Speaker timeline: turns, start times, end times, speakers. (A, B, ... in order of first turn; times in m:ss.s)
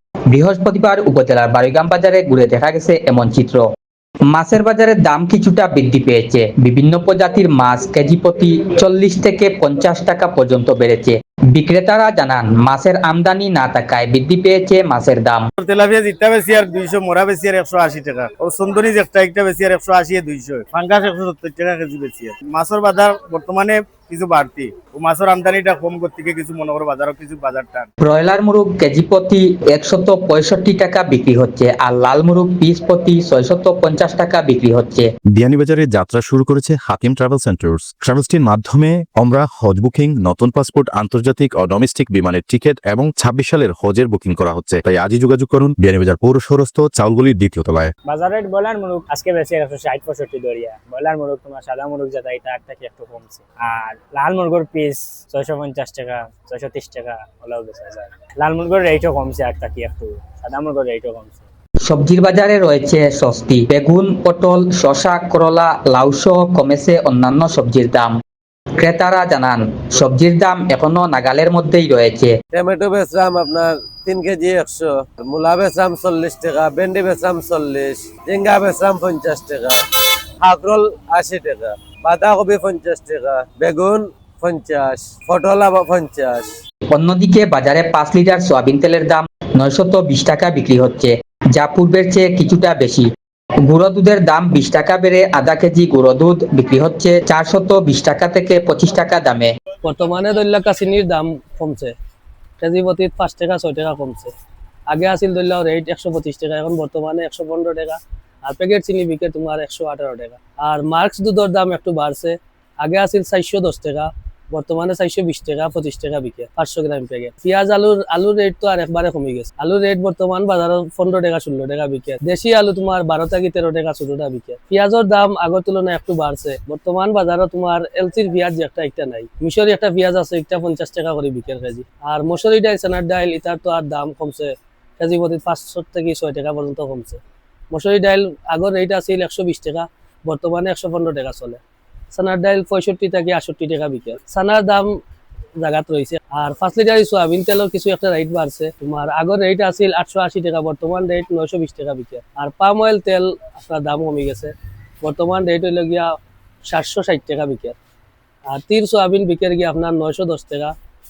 0:00.3-0:03.6 A
0:04.3-0:15.5 A
0:15.6-0:27.7 B
0:28.0-0:35.1 A
0:35.3-0:47.9 C
0:48.1-1:01.4 D
1:01.8-1:08.1 A
1:08.8-1:12.3 A
1:12.5-1:19.8 E
1:20.4-1:26.5 E
1:26.9-1:33.1 A
1:33.6-1:39.5 A
1:39.8-1:41.9 F
1:42.6-1:44.3 F
1:44.9-2:17.2 F
2:17.7-2:21.6 F
2:22.1-2:25.0 F
2:25.6-2:37.8 F
2:38.5-2:40.7 F